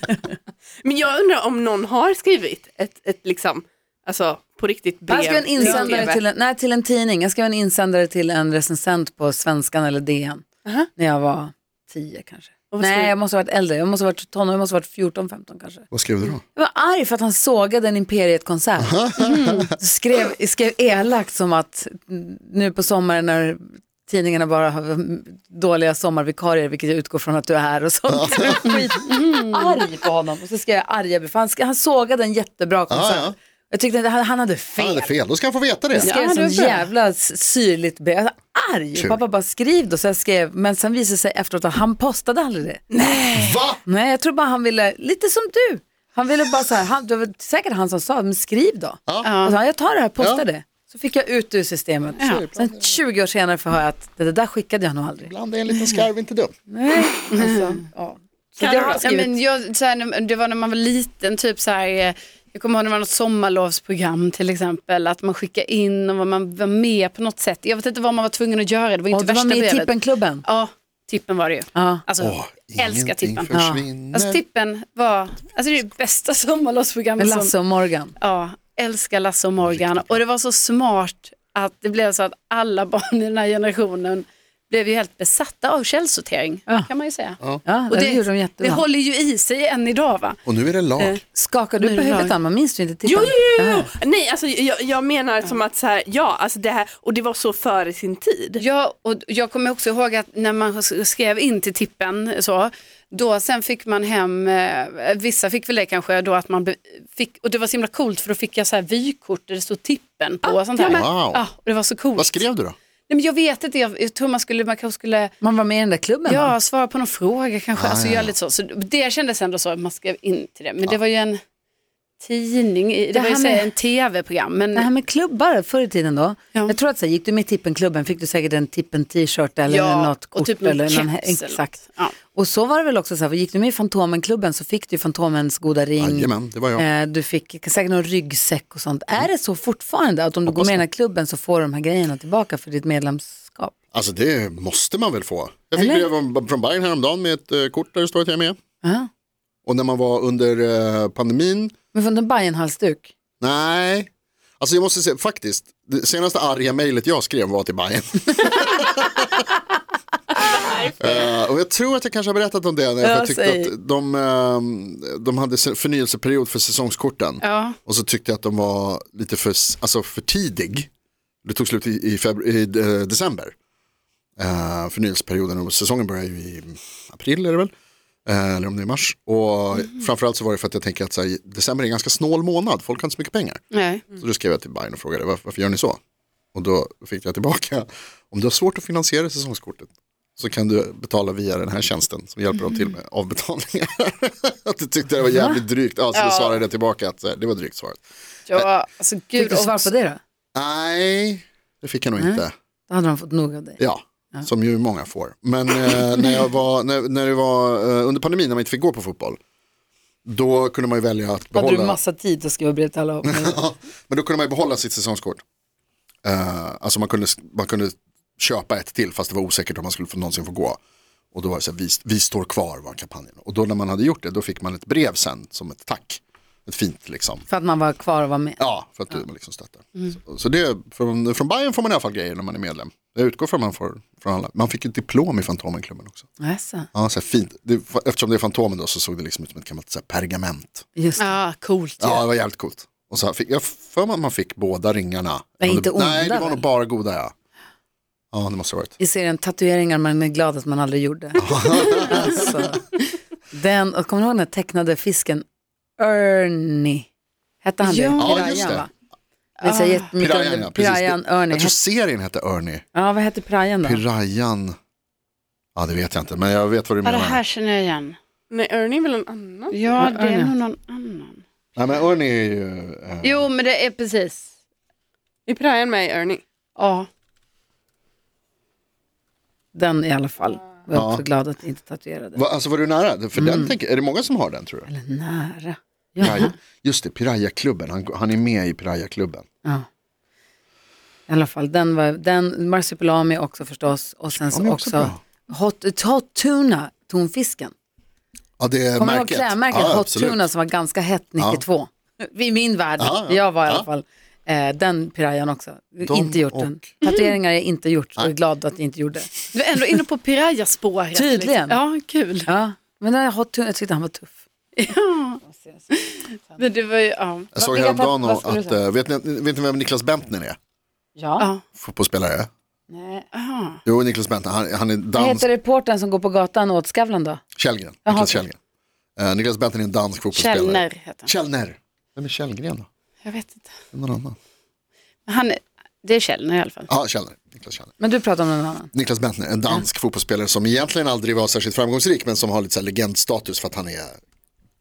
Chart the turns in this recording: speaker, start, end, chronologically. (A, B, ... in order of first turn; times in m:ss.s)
0:00.8-0:06.2 A
0:05.1-0:10.4 B
0:11.0-0:15.9 B
0:12.7-0:13.1 A
0:15.9-0:16.4 C
0:16.5-0:35.1 B
0:18.8-0:19.7 C
0:19.2-0:19.6 D
0:28.1-0:28.6 C
0:28.6-0:29.8 D
0:32.9-0:33.4 C
0:34.8-0:36.1 C
0:35.9-0:42.8 B
0:36.0-0:36.8 D
0:42.9-0:43.6 D
0:43.3-0:43.8 C
0:43.8-0:55.3 B
0:49.1-0:49.3 C
0:49.2-0:49.6 D
0:50.2-0:50.4 C
0:52.2-0:53.0 C
0:55.2-0:56.5 C
0:56.7-0:59.3 B
0:57.3-0:57.8 D
0:58.6-0:59.1 A
0:59.0-1:09.9 D
1:09.1-1:10.4 B
1:10.4-1:13.6 D
1:11.7-1:12.0 B
1:12.2-1:14.4 C
1:13.5-1:13.8 B
1:14.1-1:17.5 D
1:17.2-1:18.1 B
1:18.2-1:30.4 D
1:19.6-1:20.2 C
1:27.6-1:28.8 B
1:30.4-1:31.2 C
1:31.3-1:33.9 B
1:31.8-1:32.3 D
1:33.0-1:38.6 A
1:38.6-1:52.4 D
1:50.8-1:51.4 C
1:52.2-1:52.8 C
1:53.1-1:55.3 D
1:55.4-1:56.5 B
1:56.3-2:01.4 D
1:57.7-1:58.3 C
2:02.2-2:04.9 D
2:03.1-2:03.6 B
2:04.7-2:23.7 B
2:09.7-2:12.1 D
2:16.0-2:16.8 C
2:20.4-2:20.8 C
2:23.9-2:28.6 C
2:25.7-2:26.1 B
2:28.8-2:29.1 B
2:29.6-2:31.7 C
2:31.9-2:33.1 B
2:33.4-2:39.1 C
2:40.6-2:40.9 A
2:41.0-2:50.9 C
2:43.0-2:43.7 B
2:47.4-2:47.8 D
2:51.4-2:53.5 C
2:54.4-2:57.7 C
2:58.2-3:06.0 C
3:03.7-3:04.0 D
3:06.5-3:18.0 C
3:15.2-3:15.6 B
3:16.1-3:16.6 D
3:18.5-3:19.9 D
3:19.4-3:20.2 B
3:20.5-3:22.5 C
3:22.2-3:23.8 B
3:23.8-3:29.4 C
3:30.2-3:32.0 C
3:31.5-3:33.6 B
3:33.2-3:35.4 C
3:36.2-3:40.8 C
3:41.3-3:47.5 C
3:47.5-3:48.6 B
3:48.6-3:56.2 C
3:56.4-3:56.9 B
3:56.9-4:00.8 C
4:01.0-4:01.3 B
4:01.2-4:02.2 D
4:02.0-4:07.3 C
4:05.6-4:06.6 B
4:08.3-4:08.9 C
4:09.0-4:12.8 B
4:11.4-4:12.6 C
4:13.5-4:15.4 B
4:16.0-4:17.1 B
4:17.6-4:18.9 B
4:17.8-4:18.7 D
4:18.2-4:18.9 C
4:19.6-4:20.1 D
4:19.6-4:21.8 B
4:20.2-4:22.8 C
4:22.9-4:24.0 B
4:23.8-4:24.8 C
4:25.7-4:27.4 C
4:27.0-4:28.2 D
4:28.5-4:29.8 A
4:29.7-4:31.4 D
4:30.0-4:30.5 B
4:31.8-4:33.5 C
4:33.2-4:34.5 D
4:35.5-4:36.4 A
4:36.8-4:37.1 D
4:39.7-4:42.4 B
4:40.9-4:41.2 C
4:42.3-4:44.9 C
4:43.4-4:43.7 B
4:44.9-4:46.5 B
4:46.2-4:49.4 C
4:51.3-4:57.7 B
4:54.3-4:55.2 C
4:58.6-5:00.5 C
4:59.0-5:09.3 B
5:01.4-5:01.6 C
5:03.0-5:03.9 C
5:06.0-5:06.9 C
5:07.0-5:07.3 D
5:09.5-5:12.5 D
5:11.1-5:11.8 B
5:12.5-5:14.4 B
5:14.8-5:15.4 D
5:15.4-5:16.6 B
5:16.0-5:17.5 D
5:17.5-5:20.6 C
5:17.6-5:18.8 B
5:21.2-5:21.5 B
5:21.8-5:22.5 C
5:22.9-5:23.2 B
5:23.3-5:23.8 D
5:23.8-5:25.5 C
5:25.1-5:27.4 B
5:27.6-5:28.6 C
5:28.0-5:28.4 B
5:29.2-5:32.9 C
5:30.3-5:31.3 D
5:33.2-5:33.7 D
5:33.9-5:34.4 C
5:35.3-5:36.9 D
5:36.9-5:37.9 C
5:38.0-5:38.9 B
5:38.9-5:44.2 C